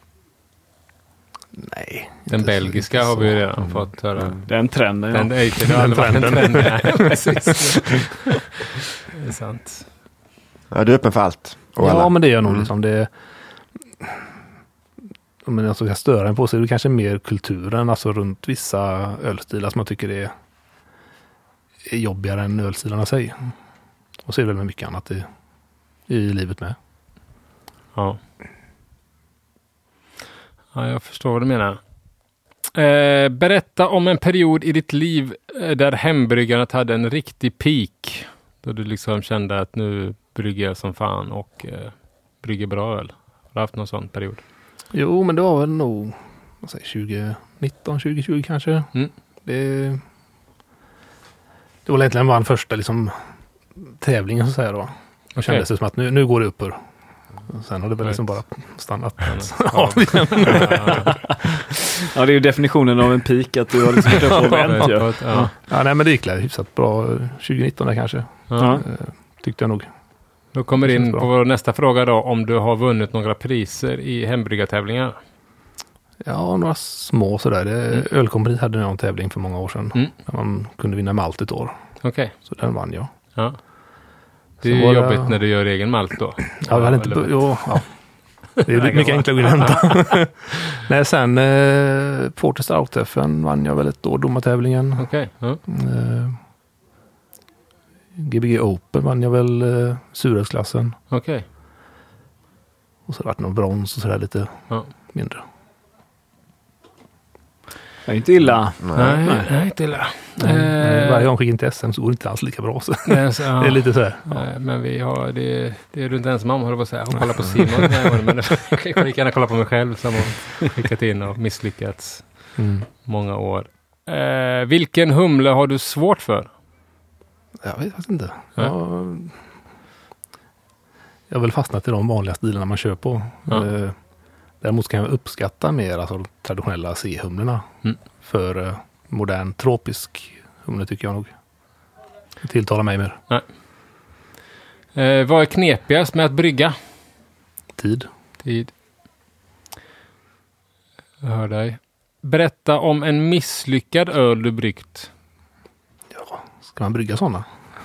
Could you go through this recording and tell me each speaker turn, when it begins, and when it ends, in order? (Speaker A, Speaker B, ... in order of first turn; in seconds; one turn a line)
Speaker A: 1.6-3.8
Speaker B: 2.3-4.4
Speaker C: 4.5-5.3
Speaker B: 5.1-8.2
Speaker A: 5.6-8.0
Speaker B: 9.1-9.8
Speaker D: 10.7-12.7
Speaker A: 11.8-13.1
Speaker A: 15.4-20.3
Speaker A: 21.9-23.5
Speaker A: 24.2-25.3
Speaker A: 26.1-26.8
Speaker B: 30.7-31.8
Speaker B: 32.7-44.4
Speaker A: 44.9-48.9
Speaker A: 49.4-50.0
Speaker A: 51.9-53.1
Speaker A: 53.9-56.8
Speaker B: 55.4-55.6
Speaker A: 57.5-61.2
Speaker B: 59.2-61.2
Speaker C: 62.0-65.5
Speaker B: 64.2-65.5
Speaker A: 64.3-64.9
Speaker A: 65.6-69.9
Speaker B: 68.5-68.8
Speaker C: 68.6-68.8
Speaker B: 70.5-75.2
Speaker A: 70.8-71.3
Speaker A: 76.2-81.7
Speaker B: 82.0-82.3
Speaker A: 82.5-83.1
Speaker B: 84.6-87.8
Speaker A: 84.6-85.3
Speaker A: 86.6-87.9
Speaker B: 88.6-89.9
Speaker A: 88.6-95.1
Speaker B: 95.0-95.6
Speaker A: 95.7-96.4
Speaker A: 98.2-101.0
Speaker B: 101.1-101.4
Speaker A: 103.1-105.4
Speaker C: 108.1-109.5
Speaker D: 108.8-109.2
Speaker B: 108.9-111.3
Speaker A: 110.4-114.4
Speaker B: 113.1-122.2
Speaker A: 122.6-122.9
Speaker B: 123.0-126.5
Speaker A: 127.6-129.3
Speaker A: 131.3-133.9
Speaker A: 134.6-137.7
Speaker A: 138.2-141.3
Speaker A: 142.4-143.2
Speaker B: 144.9-146.8
Speaker A: 147.8-148.1
Speaker B: 148.4-148.7
Speaker B: 151.2-155.1
Speaker A: 156.1-157.4